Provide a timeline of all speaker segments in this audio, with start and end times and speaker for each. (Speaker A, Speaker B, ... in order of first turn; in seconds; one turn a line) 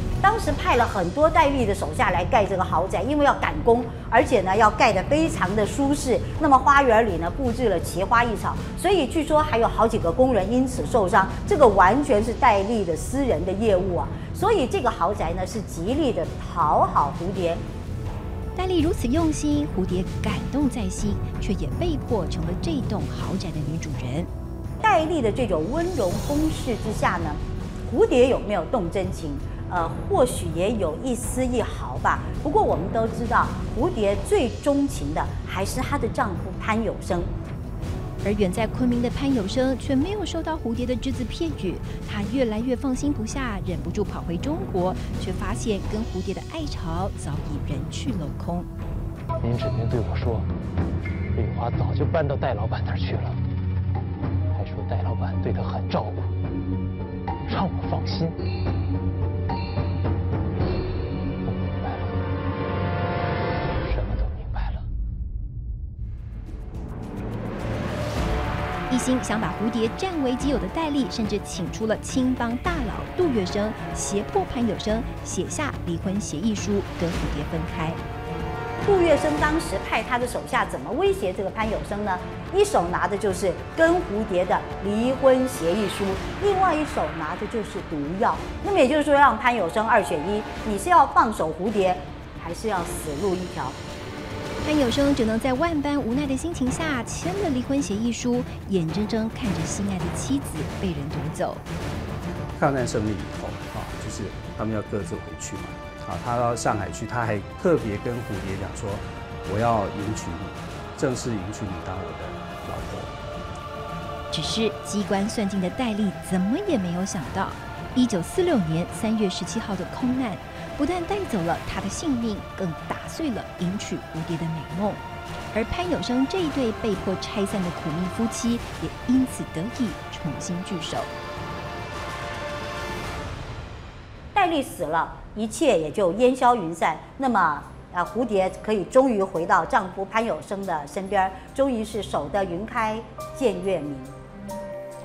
Speaker A: 0.2-17.6
Speaker B: 18.6-24.3
Speaker A: 24.8-37.3
Speaker B: 38.2-48.7
Speaker C: 49.4-50.5
Speaker C: 51.3-53.4
Speaker C: 54.5-56.3
Speaker C: 57.5-58.4
Speaker C: 61.4-62.2
Speaker C: 63.7-64.8
Speaker B: 68.9-78.0
Speaker A: 78.8-93.8
Speaker B: 94.6-101.6
Speaker D: 102.5-113.1
Speaker B: 114.3-125.0
Speaker B: 125.5-131.1
Speaker A: 134.3-144.1